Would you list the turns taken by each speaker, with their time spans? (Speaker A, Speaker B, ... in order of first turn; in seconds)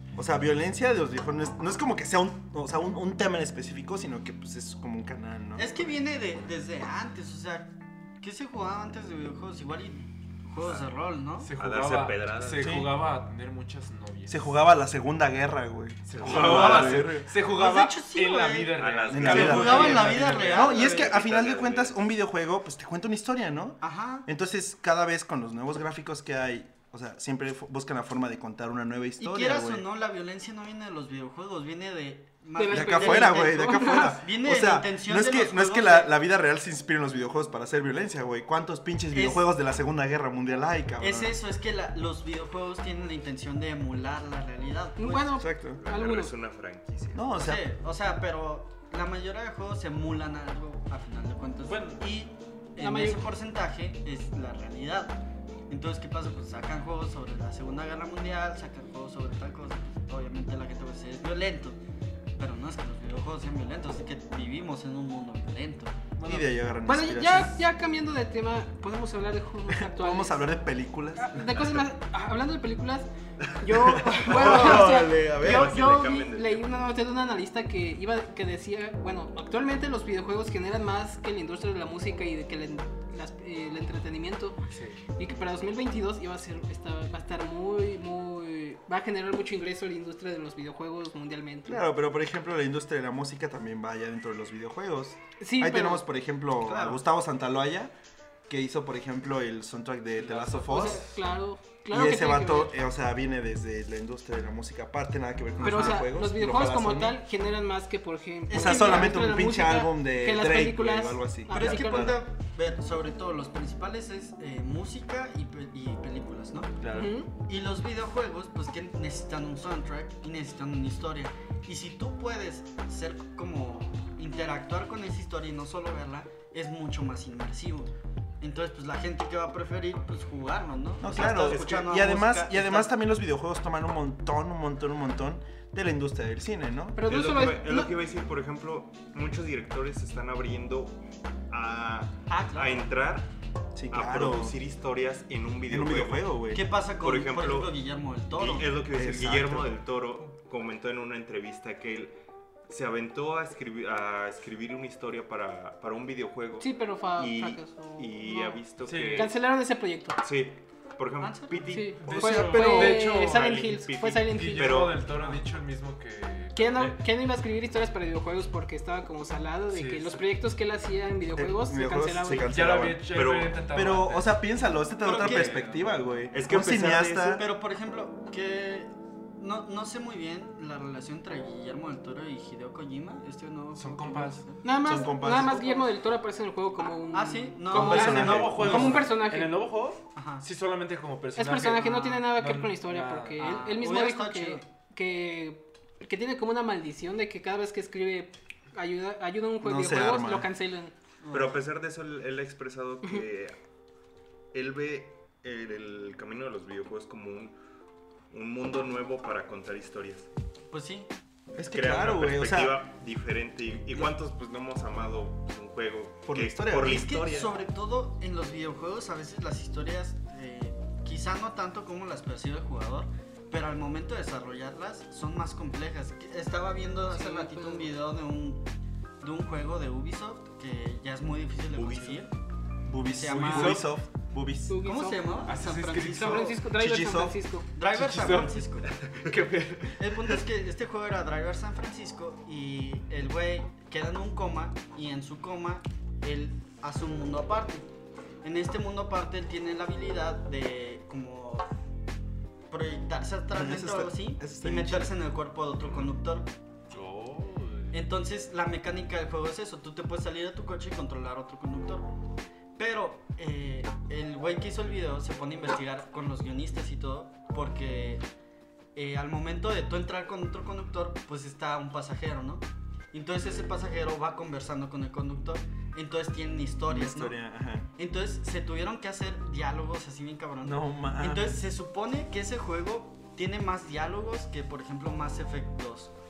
Speaker A: 0.1-5.8, 12.6-12.9, 14.3-17.3, 19.1-29.8, 32.7-41.4, 45.3-45.8, 47.1-47.6, 66.2-67.6, 69.7-71.8, 73.7-75.8, 91.7-97.9, 98.5-101.1, 101.9-107.2, 108.5-112.2, 116.8-117.1, 131.0-137.0, 143.8-144.6, 145.7-146.6, 148.9-149.8, 171.3-173.1, 173.7-177.4, 184.8-185.8, 187.7-189.0, 199.6-200.5, 211.6-212.8, 216.2-217.1, 232.8-234.8, 236.7-237.4, 253.5-255.1, 276.9-277.9, 280.6-281.7
Speaker B: 5.6-11.5, 16.3-21.2, 23.8-24.3, 29.2-36.1, 39.1-39.4, 41.0-45.3, 47.4-55.2, 55.7-61.8, 62.4-66.1, 96.6-97.0, 105.6-106.0, 108.5-109.2, 111.5-116.8, 117.5-132.9, 142.3-142.9, 146.5-148.8, 161.2-161.6, 165.0-165.4, 175.0-175.6, 177.2-184.6, 187.1-189.1, 190.2-190.4, 193.4-194.6, 201.2-201.6, 210.7-211.1, 216.8-228.6, 229.2-232.3, 233.1-233.9, 234.8-236.6, 237.7-238.9, 240.0-247.9, 248.4-251.7, 252.7-256.5, 257.9-262.1, 262.8-268.2, 268.9-277.4, 277.9-286.1
Speaker C: 11.4-14.6, 16.1-20.6, 51.6-52.0, 66.2-66.5, 84.7-85.0, 100.2-101.0, 158.8-159.3, 162.0-163.6, 164.2-167.0, 169.7-170.2, 172.5-174.4, 175.0-176.2, 183.7-184.4, 187.7-193.7, 233.3-233.8, 235.4-236.6, 237.9-240.3, 256.9-257.9
Speaker D: 11.6-12.8, 16.2-16.9, 18.8-22.0, 45.7-47.3, 74.3-76.7, 137.0-141.0, 141.5-143.3, 143.9-146.4, 147.0-147.8, 148.3-152.1, 152.7-159.4, 160.2-165.0, 173.1-173.6, 176.3-177.4, 201.3-203.5, 204.5-207.6, 208.3-210.3, 211.6-217.5, 231.7-232.2
Speaker E: 32.5-34.2, 45.0-46.3, 52.8-53.3, 66.8-70.5, 71.2-84.6, 85.2-91.8, 95.4-96.0, 100.6-102.7, 105.6-112.2, 116.9-117.3, 136.9-137.9, 156.6-158.6, 159.1-160.2, 161.7-164.8, 166.5-172.5, 184.6-189.6, 191.3-200.9, 227.1-227.9, 234.7-235.4, 236.1-237.7